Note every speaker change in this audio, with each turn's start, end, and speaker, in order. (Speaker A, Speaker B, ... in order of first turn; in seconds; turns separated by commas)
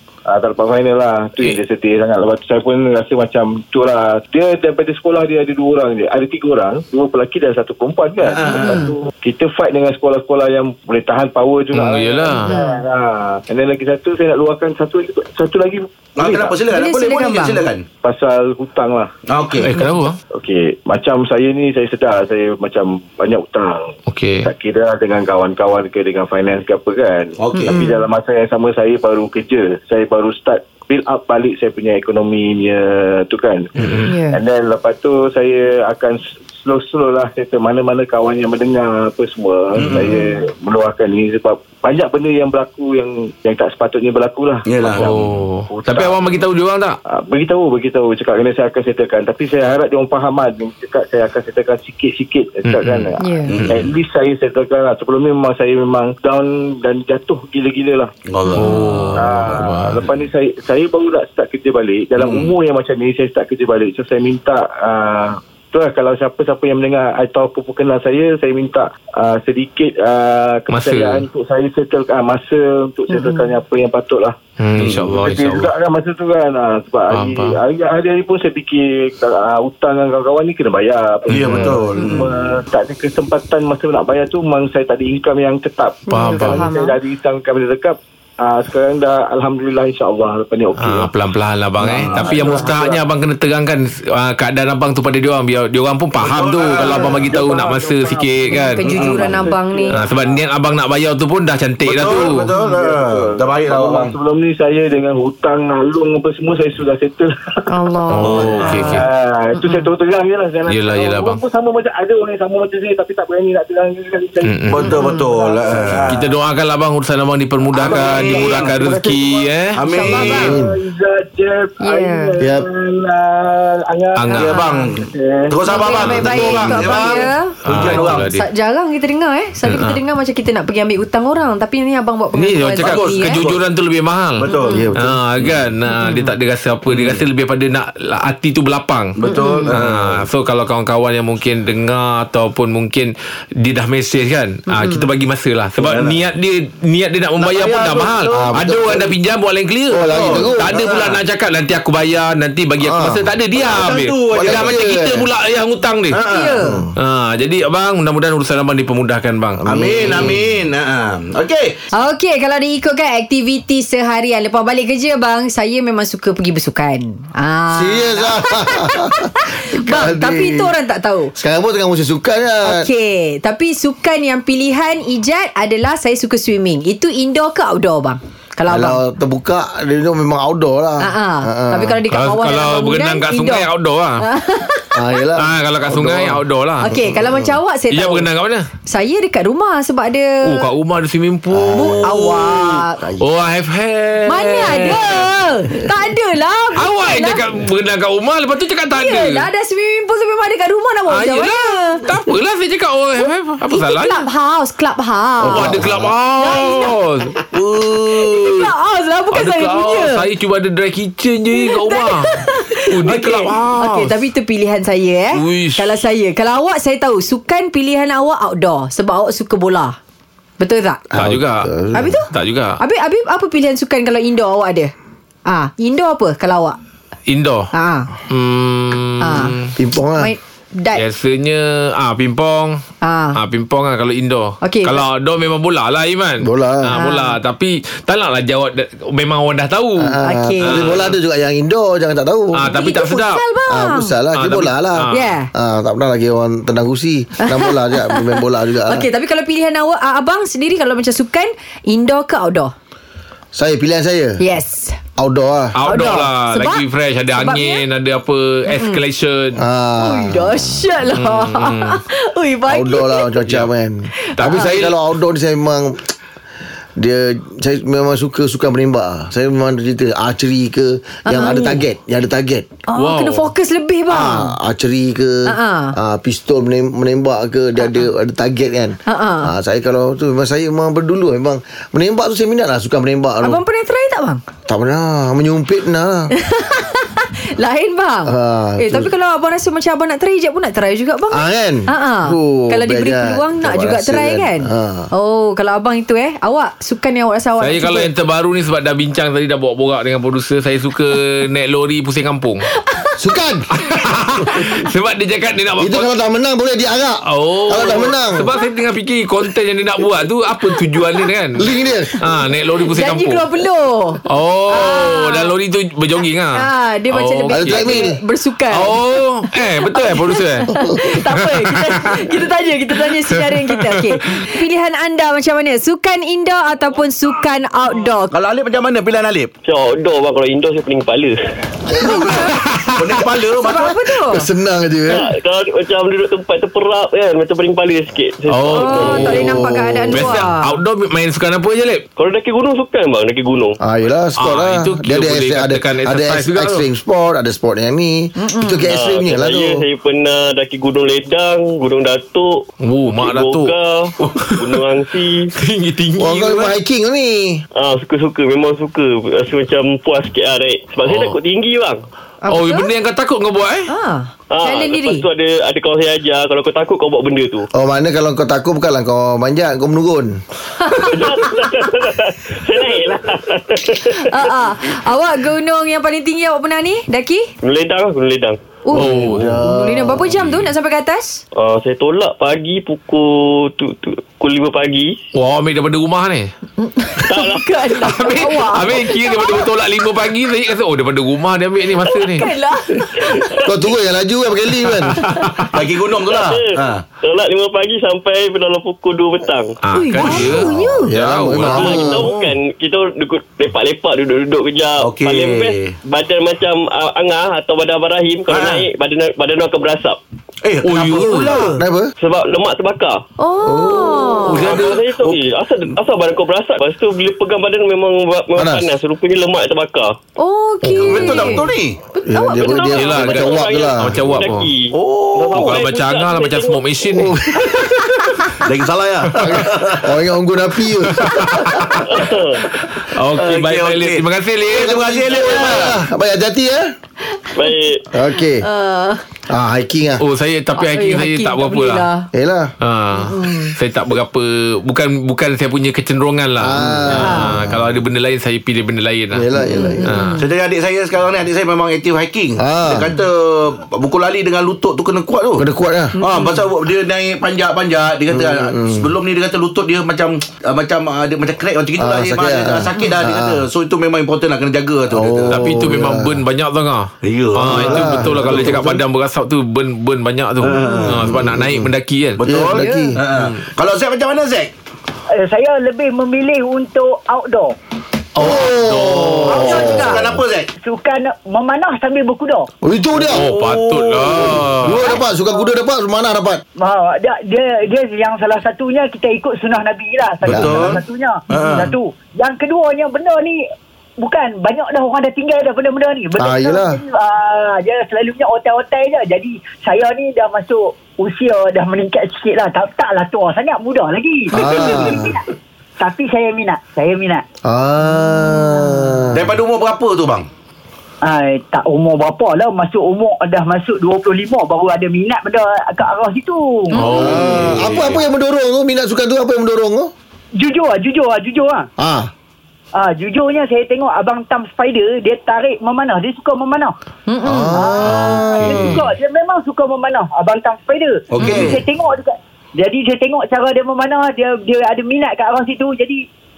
Speaker A: 0.3-16.6, Speaker B: 8.2-8.8, Speaker C: 8.4-8.9, Speaker D: 11.7-12.6, Speaker C: 12.4-12.8, Speaker B: 16.1-17.8, Speaker C: 16.7-17.6, Speaker A: 18.0-19.1, Speaker B: 19.3-19.7, Speaker D: 19.6-20.2, Speaker A: 20.3-46.4, Speaker D: 24.1-24.5, Speaker B: 27.4-27.8, Speaker C: 27.5-28.0, Speaker D: 33.8-34.1, Speaker C: 34.0-34.4, Speaker B: 39.8-40.2, Speaker C: 40.0-40.3, Speaker B: 44.7-45.1, Speaker D: 44.9-47.0, Speaker A: 47.0-58.1, Speaker D: 52.6-53.1, Speaker C: 53.2-53.5, Speaker B: 53.5-53.9, Speaker B: 58.3-58.8, Speaker C: 58.5-59.1, Speaker D: 58.5-60.0, Speaker A: 59.1-91.1, Speaker B: 62.2-62.5, Speaker D: 70.7-71.2, Speaker C: 73.1-73.5, Speaker D: 74.6-75.7, Speaker B: 74.8-75.1, Speaker D: 77.1-77.6, Speaker B: 81.3-82.3, Speaker D: 81.4-81.8, Speaker C: 82.0-82.3, Speaker C: 86.1-87.0, Speaker D: 86.1-86.7, Speaker D: 90.8-98.9, Speaker B: 91.8-92.5, Speaker A: 91.8-93.0, Speaker B: 96.2-97.2, Speaker A: 96.7-100.4, Speaker C: 96.8-97.1, Speaker C: 98.5-99.9, Speaker B: 98.9-99.4, Speaker D: 99.9-102.5, Speaker B: 101.8-104.1, Speaker A: 102.1-107.3, Speaker C: 107.7-109.0, Speaker D: 108.1-109.0, Speaker A: 108.2-116.1, Speaker C: 109.5-109.9, Speaker D: 110.7-111.4, Speaker D: 114.4-114.8, Speaker B: 114.7-116.2, Speaker C: 114.8-115.3, Speaker D: 116.1-119.8, Speaker A: 117.7-126.0, Speaker B: 117.8-118.8, Speaker B: 119.8-120.6, Speaker C: 119.9-120.5, Speaker E: 120.4-120.7, Speaker C: 121.8-122.3, Speaker E: 122.4-122.6, Speaker D: 124.2-124.5, Speaker B: 124.4-128.3, Speaker C: 124.4-124.9, Speaker C: 125.6-133.5, Speaker D: 127.6-128.4, Speaker D: 129.6-130.0, Speaker D: 132.3-156.2, Speaker B: 132.8-133.6, Speaker B: 134.4-134.9, Speaker C: 134.5-134.8, Speaker E: 134.7-135.2, Speaker C: 135.9-136.3, Speaker B: 136.9-137.2, Speaker B: 139.2-140.2, Speaker C: 139.3-139.7, Speaker C: 144.7-145.1, Speaker B: 145.8-146.2, Speaker B: 147.4-149.1, Speaker E: 148.3-149.0, Speaker E: 149.9-150.9, Speaker B: 150.0-151.2, Speaker E: 152.8-153.3, Speaker B: 153.5-155.0, Speaker E: 154.3-155.2, Speaker B: 156.1-156.6, Speaker C: 156.2-156.8, Speaker E: 156.6-156.9, Speaker D: 156.9-160.4, Speaker E: 159.7-160.4, Speaker B: 159.7-161.7, Speaker C: 161.9-171.3, Speaker E: 167.7-170.7, Speaker E: 171.3-172.9, Speaker C: 172.6-179.0, Speaker E: 178.7-182.0, Speaker C: 181.0-185.0, Speaker D: 182.1-184.2, Speaker E: 184.9-186.4, Speaker D: 185.4-187.0, Speaker C: 186.8-188.3, Speaker D: 187.9-188.7, Speaker C: 188.8-190.7, Speaker D: 190.4-192.6, Speaker E: 191.5-192.1, Speaker C: 191.7-193.0, Speaker D: 193.2-195.3, Speaker C: 194.2-197.4, Speaker D: 196.7-199.4, Speaker C: 198.9-202.0, Speaker D: 201.1-204.2, Speaker C: 203.2-205.8, Speaker E: 205.4-206.1, Speaker D: 205.5-207.4, Speaker C: 206.4-206.9, Speaker B: 207.5-208.6, Speaker C: 208.3-210.2, Speaker D: 209.3-214.2, Speaker C: 211.5-220.0, Speaker D: 215.3-216.0, Speaker C: 220.6-221.1, Speaker D: 221.1-221.7, Speaker E: 221.1-222.1, Speaker C: 221.9-224.9, Speaker D: 222.3-222.8, Speaker C: 225.5-226.8, Speaker D: 227.3-227.7, Speaker C: 227.7-228.1, Speaker D: 228.3-229.7, Speaker C: 229.2-229.5, Speaker E: 229.8-230.3, Speaker C: 230.2-231.0, Speaker D: 230.9-232.8, Speaker C: 233.0-233.3, Speaker D: 233.3-241.2, Speaker C: 234.6-235.1, Speaker E: 236.4-236.9, Speaker C: 236.9-237.4, Speaker E: 240.0-242.8, Speaker C: 240.2-240.8, Speaker D: 242.5-243.4, Speaker C: 242.7-244.1, Speaker E: 243.7-249.1, Speaker D: 244.3-245.2, Speaker C: 245.1-245.5, Speaker C: 247.4-252.7, Speaker E: 253.5-254.4, Speaker C: 254.4-255.0, Speaker E: 255.2-255.8, Speaker D: 255.7-259.6, Speaker C: 255.8-256.8, Speaker C: 257.4-257.8, Speaker C: 258.7-259.0, Speaker E: 259.6-260.8, Speaker C: 260.0-263.3, Speaker D: 261.1-262.0, Speaker E: 262.7-266.1, Speaker C: 264.2-264.6, Speaker D: 264.4-265.0, Speaker E: 267.0-272.7, Speaker C: 271.3-271.8, Speaker C: 272.9-274.6, Speaker D: 272.9-273.5, Speaker E: 274.1-283.6, Speaker C: 275.5-275.9, Speaker C: 277.8-278.1, Speaker C: 279.1-279.5, Speaker C: 283.4-284.4, Speaker E: 284.7-286.3, Speaker C: 286.3-298.1, Speaker E: 288.2-289.1, Speaker E: 291.3-295.1, Speaker D: 297.6-302.7, Speaker C: 302.9-303.1, Speaker E: 303.2-303.7, Speaker D: 303.7-306.1, Speaker C: 304.5-304.7, Speaker E: 305.8-308.5, Speaker D: 307.3-311.7, Speaker C: 310.6-311.2, Speaker E: 311.6-312.2, Speaker D: 312.2-313.4, Speaker C: 312.9-315.5, Speaker D: 314.2-318.0, Speaker C: 316.5-328.3, Speaker E: 317.5-318.2, Speaker D: 318.7-322.4, Speaker D: 323.0-324.5, Speaker B: 328.3-329.5, Speaker F: 329.6-331.4, Speaker E: 331.9-332.6, Speaker C: 332.0-332.5, Speaker D: 332.2-333.2, Speaker B: 332.9-334.0, Speaker C: 333.6-334.4, Speaker E: 334.3-335.3, Speaker F: 335.1-339.4, Speaker D: 338.5-342.0, Speaker C: 338.7-340.7, Speaker E: 339.0-340.4, Speaker F: 342.2-343.8, Speaker E: 343.8-349.8, Speaker D: 344.4-346.8, Speaker C: 348.4-348.8, Speaker F: 348.9-355.5, Speaker D: 352.8-354.8, Speaker D: 355.6-356.7, Speaker E: 356.2-357.6, Speaker F: 357.7-362.0, Speaker D: 361.0-361.3, Speaker C: 362.4-362.9, Speaker D: 362.5-363.9, Speaker C: 363.9-365.2, Speaker F: 364.5-367.7, Speaker E: 367.7-370.4, Speaker C: 370.8-371.9, Speaker F: 371.1-374.5, Speaker C: 374.1-377.5, Speaker F: 377.6-378.6, Speaker C: 378.8-381.4, Speaker D: 378.9-379.6, Speaker E: 378.9-380.4, Speaker F: 381.5-385.2, Speaker D: 385.3-386.5, Speaker C: 386.8-389.7, Speaker F: 387.2-387.8, Speaker D: 387.9-392.5, Speaker C: 392.0-393.6, Speaker F: 393.2-393.7, Speaker E: 393.6-395.3, Speaker D: 394.9-395.8, Speaker C: 395.2-395.5, Speaker B: 395.6-397.0, Speaker F: 396.3-399.8, Speaker D: 399.8-402.1, Speaker C: 399.9-401.1, Speaker E: 400.2-402.3, Speaker F: 401.6-410.2, Speaker B: 401.7-402.5, Speaker B: 405.0-405.9, Speaker B: 408.5-408.9, Speaker B: 410.6-411.8, Speaker D: 410.8-411.6, Speaker E: 411.7-412.1, Speaker F: 412.2-413.2, Speaker C: 413.4-414.6, Speaker E: 413.6-414.5, Speaker B: 414.5-415.4, Speaker F: 414.6-420.2, Speaker E: 418.6-418.9, Speaker C: 420.4-422.8, Speaker B: 420.9-422.0, Speaker E: 422.2-424.4, Speaker F: 422.5-426.8, Speaker D: 422.9-424.7, Speaker B: 424.9-425.8, Speaker D: 425.5-427.4, Speaker E: 427.1-428.5, Speaker B: 428.6-430.1, Speaker E: 429.3-432.0, Speaker D: 431.1-432.0, Speaker F: 432.0-432.6, Speaker D: 433.0-435.0, Speaker B: 433.3-436.0, Speaker E: 434.7-436.9, Speaker F: 437.6-438.0, Speaker E: 438.1-438.6, Speaker C: 438.3-439.2, Speaker E: 439.5-440.2, Speaker D: 440.2-442.1, Speaker C: 440.8-442.3, Speaker E: 442.3-442.7, Speaker D: 442.8-449.5, Speaker C: 443.2-443.7, Speaker E: 446.6-447.8, Speaker C: 447.1-447.5, Speaker E: 449.3-450.1, Speaker C: 449.7-450.4, Speaker D: 450.0-450.4, Speaker B: 450.4-455.6, Speaker E: 452.6-453.1, Speaker E: 455.6-456.1, Speaker C: 456.1-456.7, Speaker B: 456.2-465.7, Speaker E: 458.3-459.1, Speaker E: 462.0-463.6, Speaker E: 465.1-466.4, Speaker D: 465.5-472.7, Speaker B: 467.2-468.9, Speaker E: 467.6-469.0, Speaker B: 470.6-471.4, Speaker E: 471.0-471.9, Speaker B: 472.4-474.7, Speaker E: 472.4-473.2, Speaker C: 472.8-473.2, Speaker D: 473.3-473.6, Speaker G: 475.3-477.7, Speaker D: 478.4-479.8, Speaker E: 478.4-480.4, Speaker B: 479.5-480.7, Speaker C: 479.5-480.1, Speaker G: 479.9-480.1, Speaker G: 480.8-482.7, Speaker E: 482.8-483.5, Speaker B: 483.1-484.8, Speaker D: 483.3-485.1, Speaker E: 484.5-486.6, Speaker G: 485.1-485.7, Speaker G: 486.8-493.6, Speaker B: 490.4-491.9, Speaker E: 490.5-491.0, Speaker G: 494.2-505.4, Speaker E: 496.4-497.0, Speaker E: 504.5-505.4, Speaker G: 506.0-507.4, Speaker E: 507.6-509.5, Speaker C: 508.5-509.1, Speaker B: 509.3-510.5, Speaker G: 511.2-516.9, Speaker D: 516.9-518.2, Speaker C: 517.0-517.4, Speaker E: 517.1-520.1, Speaker B: 517.3-518.1, Speaker G: 520.6-521.9, Speaker E: 522.0-522.3, Speaker G: 522.9-526.9, Speaker C: 527.3-527.8, Speaker E: 527.4-529.0, Speaker G: 527.7-536.2, Speaker B: 531.3-531.8